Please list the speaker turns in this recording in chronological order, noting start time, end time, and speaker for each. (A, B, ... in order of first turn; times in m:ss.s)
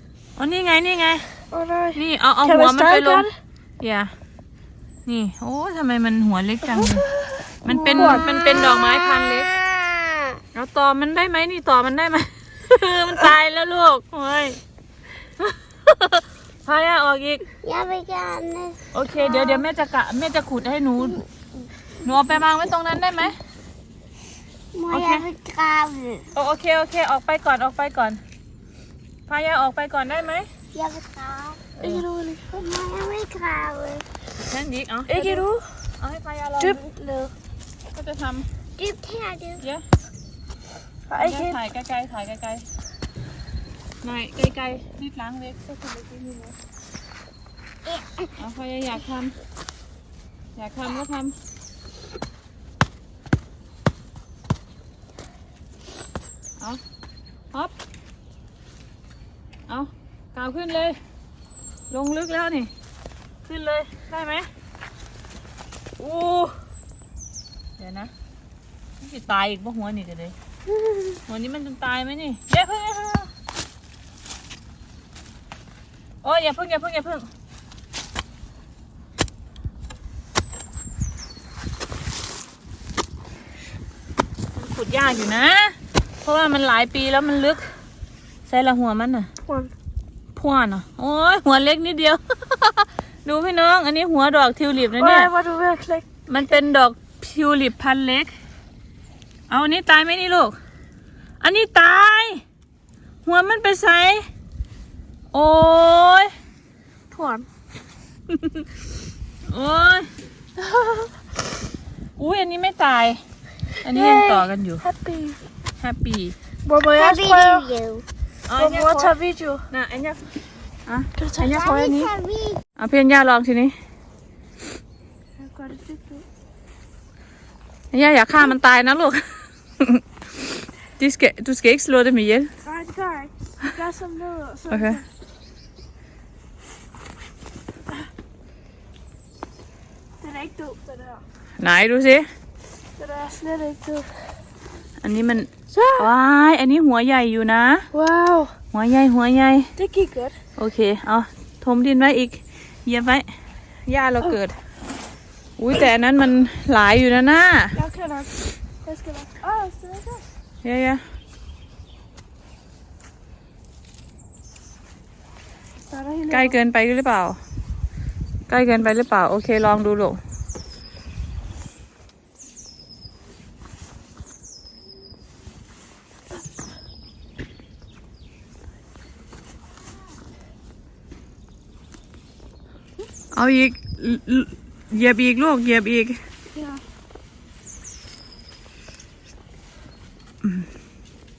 0:00.4-0:01.3 A
0:01.5-0:03.4 B
0:01.9-0:03.3 A
0:03.8-0:04.1 A
0:05.1-0:07.1 A
0:06.6-0:08.7 B
0:07.6-0:09.5 A
0:08.2-0:10.4 C
0:10.5-0:14.6 A
0:15.4-0:17.4 A
0:17.6-0:19.6 C
0:18.9-0:21.2 A
0:22.0-0:23.4 A
0:24.7-0:26.3 C
0:24.9-0:25.3 A
0:26.3-0:28.2 A
0:29.3-0:30.5 A
0:30.7-0:31.6 C
0:31.8-0:32.0 A
0:31.8-0:32.6 B
0:32.6-0:34.1 C
0:34.4-0:35.4 A
0:35.1-0:35.7 B
0:36.0-0:36.9 A
0:36.6-0:37.3 B
0:37.9-0:38.5 A
0:38.8-0:39.6 C
0:39.6-0:39.8 A
0:41.1-0:41.6 B
0:41.2-0:42.6 A
0:44.0-0:46.6 A
0:47.9-0:48.3 C
0:48.4-0:49.3 A
0:50.6-0:51.3 A
0:59.7-1:01.0 A
1:01.9-1:02.7 A
1:03.4-1:04.5 A
1:06.0-1:06.6 B
1:07.8-1:08.1 A
1:09.0-1:10.3 A
1:11.3-1:13.3 A
1:16.2-1:17.2 A
1:24.5-1:27.7 A
1:28.4-1:29.3 A
1:29.4-1:29.7 B
1:30.3-1:35.3 A
1:35.0-1:36.0 B
1:36.3-1:38.3 A
1:39.5-1:40.6 A
1:41.4-1:42.4 A
1:43.2-1:44.2 A
1:45.3-1:46.3 A
1:47.1-1:47.4 C
1:49.5-1:50.1 A
1:52.2-1:53.2 A
1:53.8-1:54.9 A
1:53.9-1:55.4 B
1:55.8-1:56.4 A
1:56.6-1:57.7 B
1:56.9-1:58.1 C
1:58.5-1:59.1 A
1:58.5-1:59.6 B
1:59.7-2:00.2 A
2:00.9-2:02.1 A
2:01.2-2:01.6 B
2:01.5-2:02.6 C
2:02.8-2:03.8 A
2:05.4-2:06.2 B
2:07.9-2:10.0 A
2:11.0-2:12.5 A
2:12.6-2:15.0 B
2:14.7-2:15.0 A
2:20.2-2:21.2 B
2:21.6-2:22.3 A
2:23.0-2:24.2 B
2:25.0-2:27.9 A
2:25.7-2:26.1 B
2:27.9-2:28.6 B
2:28.7-2:29.7 A
2:29.8-2:30.4 B
2:30.6-2:33.3 A
2:33.8-2:34.6 A
2:35.6-2:37.8 A
2:37.7-2:40.2 B
2:40.6-2:41.0 A
2:45.9-2:46.5 B
2:46.3-2:47.4 A
2:48.5-2:50.2 A
3:03.3-3:06.2 A
3:06.5-3:06.8 B